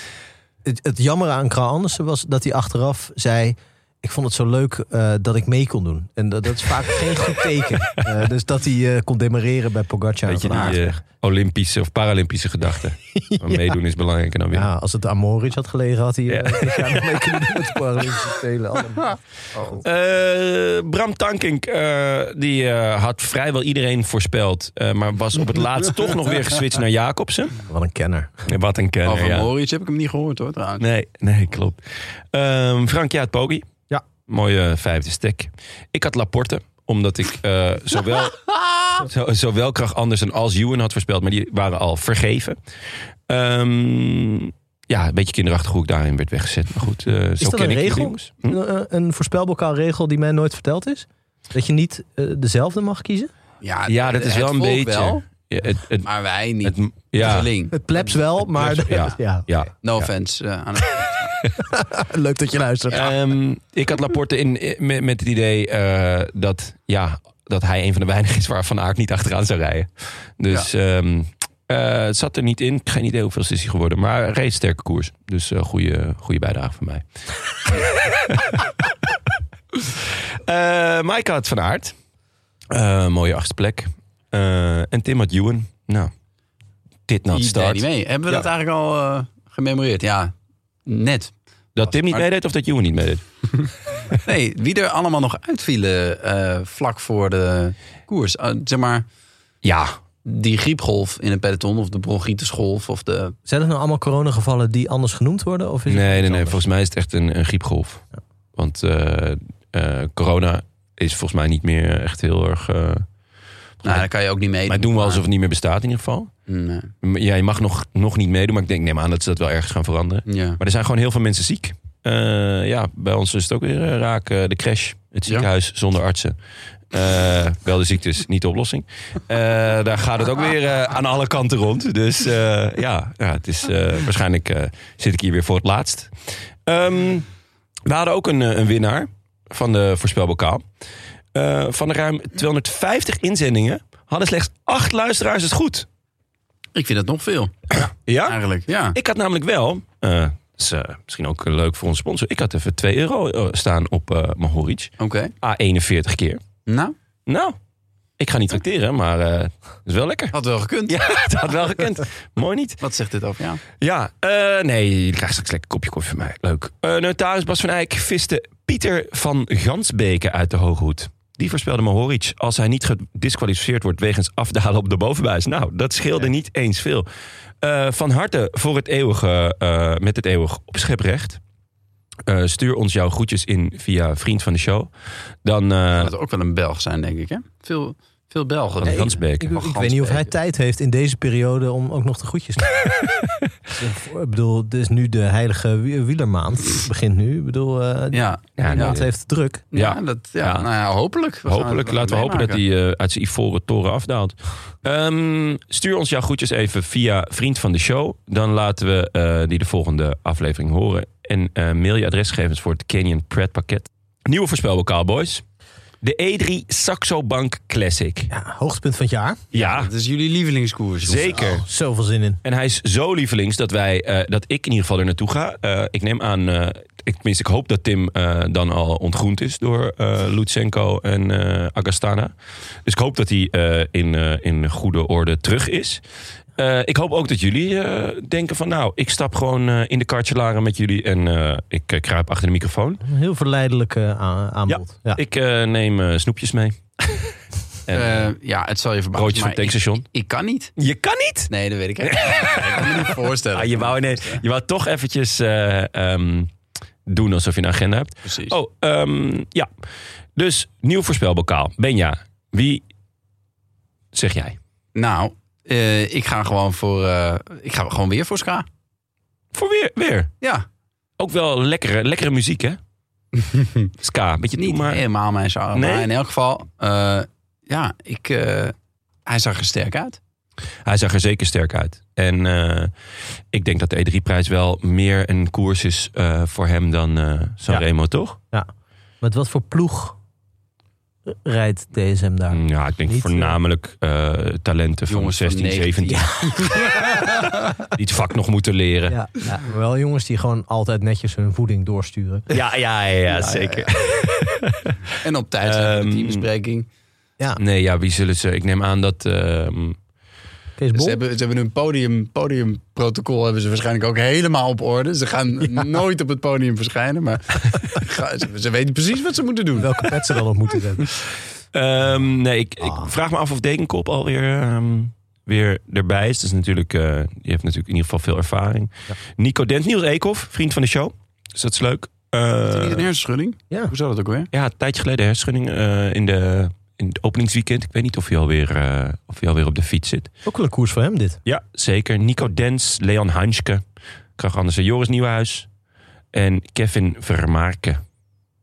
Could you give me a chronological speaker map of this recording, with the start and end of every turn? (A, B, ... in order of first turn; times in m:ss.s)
0:00.6-0:10.8 A
0:10.3-0:14.7 B
0:10.5-0:10.8 C
0:13.2-0:13.8 A
0:14.5-0:19.2 A
0:16.3-0:17.2 B
0:19.8-0:27.6 B
0:27.7-0:28.3 A
0:28.5-0:29.5 B
0:29.0-0:30.8 C
0:30.8-0:31.8 B
0:32.3-0:33.7 B
0:34.3-0:42.6 B
0:43.3-0:48.6 B
0:47.4-0:53.3 A
0:53.6-0:55.2 C
0:53.9-0:56.1 B
0:56.0-0:58.2 C
0:56.6-0:57.5 B
0:57.7-0:59.7 A
0:58.6-1:00.1 B
0:59.8-1:01.4 C
1:01.6-1:03.1 A
1:02.9-1:17.0 B
1:17.8-1:18.6 B
1:20.4-1:22.0 B
1:22.7-1:26.1 B
1:27.1-1:28.5 B
1:27.3-1:30.3 C
1:30.9-1:31.3 C
1:31.8-1:33.2 B
1:31.9-1:32.2 C
1:34.1-1:39.1 C
1:39.6-1:40.0 B
1:40.2-1:43.4 C
1:43.5-1:46.6 A
1:45.9-1:48.0 B
1:48.6-1:53.0 B
1:53.8-1:54.1 B
1:53.8-1:55.2 C
1:54.7-1:56.3 B
1:56.5-1:56.9 C
1:57.0-2:06.4 B
2:00.3-2:00.6 C
2:06.9-2:16.1 B
2:16.7-2:17.3 B
2:17.9-2:20.6 B
2:21.3-2:25.9 B
2:26.8-2:29.0 C
2:27.8-2:28.4 B
2:28.9-2:36.4 B
2:35.0-2:35.3 C
2:36.7-2:37.0 C
2:37.3-2:37.6 B
2:38.2-2:40.4 B
2:40.3-2:41.2 C
2:40.9-2:42.8 B
2:42.8-2:43.6 C
2:43.8-2:57.1 B
2:57.6-3:01.4 B
3:02.3-3:04.9 B
3:05.4-3:06.1 B
3:06.0-3:10.3 C
3:08.8-3:09.6 B
3:08.8-3:12.8 A
3:13.8-3:19.6 A
3:18.1-3:19.0 C
3:18.6-3:19.1 B
3:19.7-3:22.6 C
3:19.7-3:20.7 B
3:21.5-3:35.4 B
3:36.0-3:38.3 B
3:38.3-3:39.4 A
3:39.5-3:39.9 B
3:39.5-3:41.4 C
3:41.0-3:41.6 B
3:41.4-3:42.4 A
3:42.4-3:52.3 B
3:52.8-3:56.0 B
3:56.6-4:03.0 B
4:03.0-4:05.2 A
4:04.7-4:07.3 B
4:07.9-4:08.3 B
4:07.9-4:10.7 C
4:09.2-4:10.1 B
4:10.8-4:11.5 B
4:11.5-4:14.4 C
4:12.0-4:16.5 B
4:17.1-4:19.7 B
4:18.3-4:18.6 C
4:20.4-4:22.8 B
4:24.1-4:24.6 B
4:25.0-4:28.7 C
4:29.5-4:30.3 B
4:31.2-4:32.8 B
4:33.4-4:33.9 C
4:34.0-4:35.0 B
4:34.6-4:38.7 C
4:35.7-4:36.1 B
4:39.3-4:40.2 C
4:40.8-4:42.9 B
4:43.5-4:48.4 B
4:49.2-4:50.2 A
4:51.3-4:53.6 A
4:52.5-4:56.7 B
4:55.1-4:57.3 C
4:56.1-4:56.8 A
4:57.9-4:59.2 B
4:59.1-5:02.5 A
5:02.5-5:05.0 B
5:03.3-5:03.9 C
5:05.2-5:06.9 C
5:05.6-5:06.4 B
5:07.6-5:10.0 B
5:10.8-5:11.2 A
5:11.0-5:20.1 C
5:19.8-5:21.1 A
5:21.7-5:33.0 B
5:32.6-5:34.5 C
5:34.5-5:40.3 B
5:40.4-5:41.4 A
5:41.4-5:43.8 B
5:44.4-5:45.7 B
5:46.3-5:48.0 B